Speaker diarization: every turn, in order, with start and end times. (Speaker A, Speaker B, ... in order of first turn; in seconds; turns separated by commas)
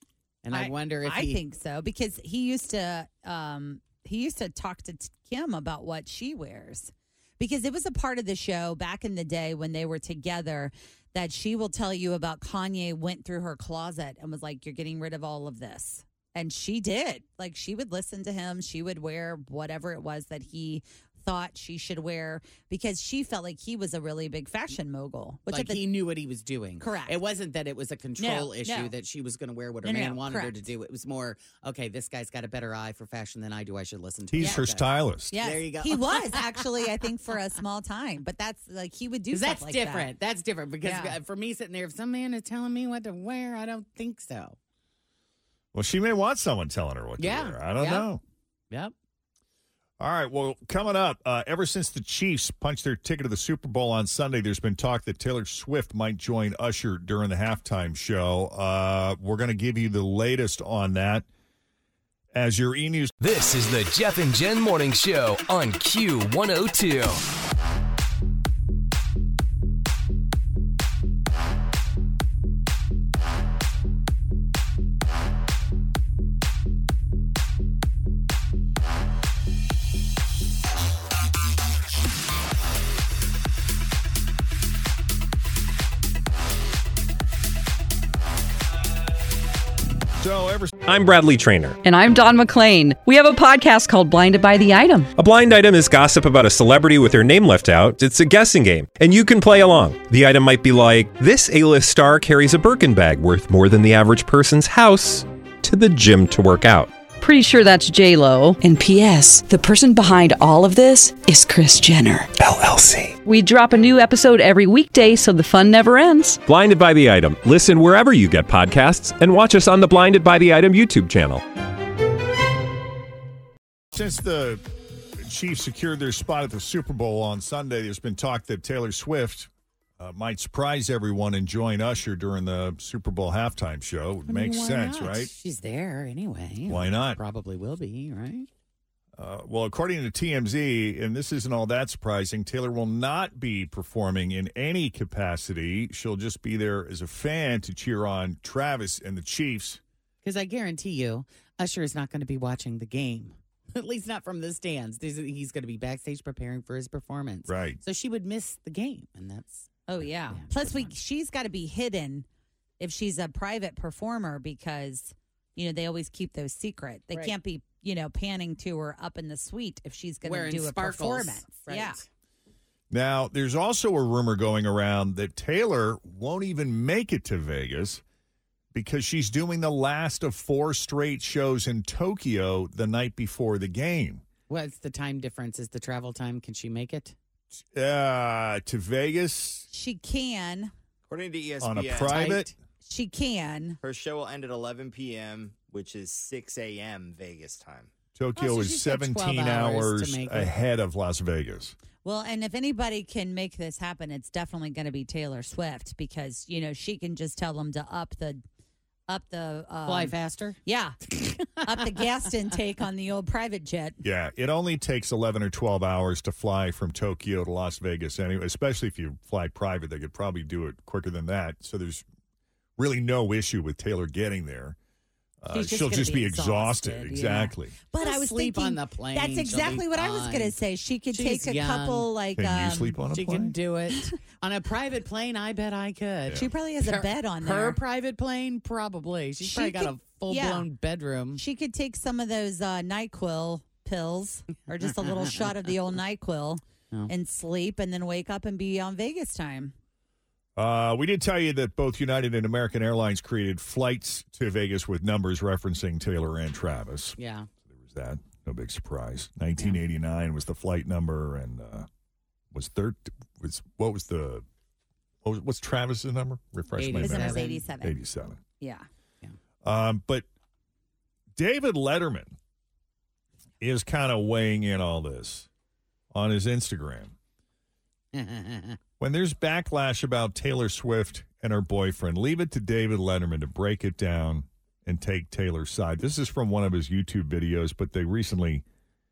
Speaker A: 0.4-1.4, Speaker B: 0.5-25.8, Speaker A: 25.5-36.7, Speaker B: 26.8-27.2, Speaker B: 28.2-28.9, Speaker B: 29.8-30.7, Speaker C: 34.3-35.4, Speaker B: 35.3-40.1, Speaker A: 39.3-44.6, Speaker B: 40.8-41.2, Speaker C: 45.7-48.2, Speaker A: 47.2-48.0, Speaker C: 50.0-61.2, Speaker C: 62.3-63.1, Speaker D: 63.2-67.2, Speaker C: 90.2-90.8, Speaker E: 90.8-91.8, Speaker F: 91.8-95.1, Speaker E: 95.2-106.9, Speaker F: 107.2-112.3, Speaker E: 112.4-113.2, Speaker F: 113.2-116.4, Speaker E: 116.4-121.4, Speaker C: 123.9-124.6, Speaker C: 125.2-135.3, Speaker A: 134.3-138.5, Speaker C: 136.7-137.2, Speaker C: 139.2-149.8, Speaker A: 150.2-160.9, Speaker C: 157.5-157.8, Speaker B: 159.9-162.2, Speaker B: 162.8-172.0, Speaker A: 170.3-172.1, Speaker C: 172.9-178.0, Speaker C: 178.7-184.2, Speaker A: 184.5-187.1, Speaker C: 187.7-189.7, Speaker B: 189.7-190.7, Speaker G: 191.1-192.2, Speaker C: 191.6-192.5, Speaker A: 192.0-192.5, Speaker B: 192.8-193.8, Speaker G: 193.8-197.9, Speaker C: 198.2-201.8, Speaker A: 198.4-200.5, Speaker B: 202.0-208.4, Speaker B: 209.1-210.1, Speaker A: 209.8-210.6, Speaker B: 210.6-211.0, Speaker A: 211.6-211.9, Speaker B: 211.6-214.0, Speaker C: 214.0-222.0, Speaker C: 222.8-224.8, Speaker C: 225.4-227.8, Speaker B: 225.5-233.0, Speaker A: 228.0-230.6, Speaker A: 231.1-232.1, Speaker C: 232.4-233.5, Speaker A: 233.1-241.4, Speaker B: 233.9-234.2, Speaker B: 236.4-237.8, Speaker B: 239.4-240.7, Speaker B: 241.3-249.7, Speaker A: 244.5-245.5, Speaker C: 250.6-261.9, Speaker A: 257.2-257.5, Speaker C: 262.5-264.4, Speaker C: 265.2-268.4, Speaker A: 266.8-267.7, Speaker B: 266.9-267.9, Speaker B: 268.6-268.9, Speaker C: 269.6-270.2, Speaker C: 271.4-272.3, Speaker C: 273.6-275.5, Speaker C: 276.1-277.1, Speaker A: 278.1-278.8, Speaker C: 279.0-288.6